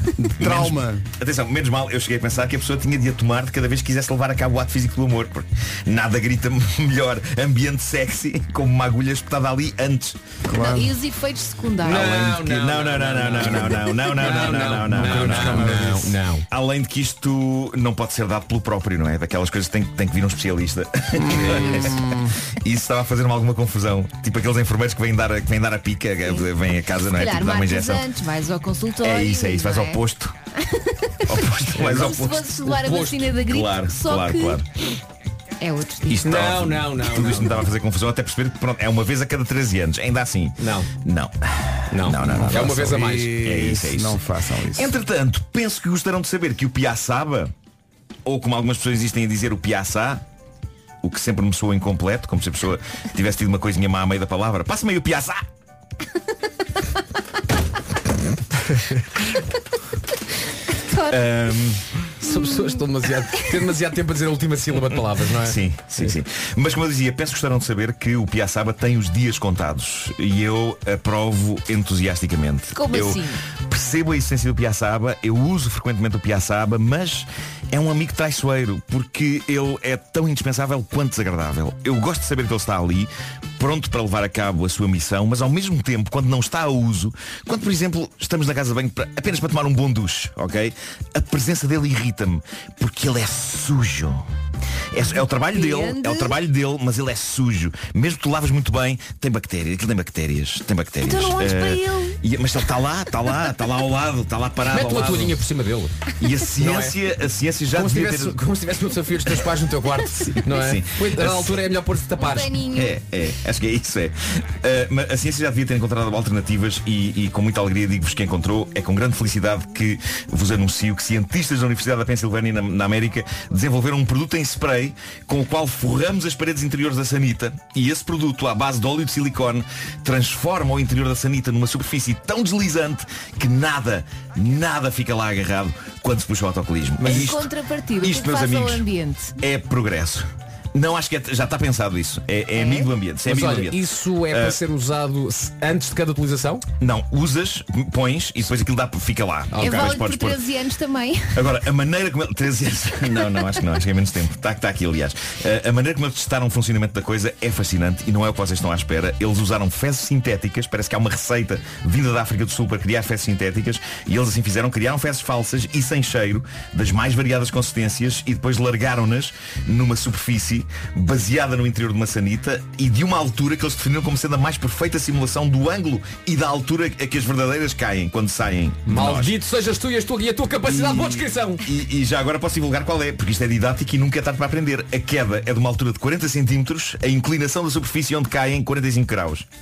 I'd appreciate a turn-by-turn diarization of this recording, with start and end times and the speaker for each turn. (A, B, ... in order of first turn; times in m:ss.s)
0:00.2-0:01.0 A
0:00.4-0:10.2 B
0:10.4-0:10.9 A
0:10.5-0:12.3 C
0:11.8-0:16.5 D
0:11.9-0:15.9 B
0:14.8-0:16.2 A
0:16.5-0:22.0 B
0:21.2-0:22.3 A
0:21.5-0:21.8 D
0:22.6-0:28.0 B
0:27.1-0:30.0 C
0:29.0-0:30.3 B
0:31.3-0:32.5 B
0:31.7-0:32.2 D
0:31.8-0:34.6 C
0:32.7-0:33.3 D
0:33.4-0:34.6 B
0:35.6-0:36.3 C
0:36.1-0:41.3 B
0:36.2-0:37.7 D
0:40.6-0:40.9 D
0:41.9-0:43.4 D
0:41.9-0:42.8 B
0:42.2-0:45.0 A
0:43.4-0:44.2 B
0:44.7-0:47.5 B
0:48.2-0:50.2 B
0:51.0-0:55.4 B
1:00.9-1:01.2 C
1:01.1-1:01.8 B
1:02.2-1:06.2 D
1:04.9-1:34.2 B
1:12.7-1:13.4 C
1:34.9-1:45.4 B
1:35.5-1:36.4 C
1:41.0-1:42.2 C
1:44.6-1:47.0 D
1:46.2-1:48.4 B
1:47.7-1:52.7 D
1:50.3-1:51.6 B
1:52.2-1:52.9 C
1:52.6-2:17.5 B
2:17.0-2:19.3 C
2:18.0-2:18.8 B
2:19.4-2:24.6 B
2:22.5-2:22.9 C
2:23.2-2:26.6 D
2:26.8-2:30.4 B
2:29.5-2:30.0 D
2:29.6-2:31.4 C
2:31.3-2:59.4 B
2:58.8-3:01.6 D
3:00.7-3:09.4 B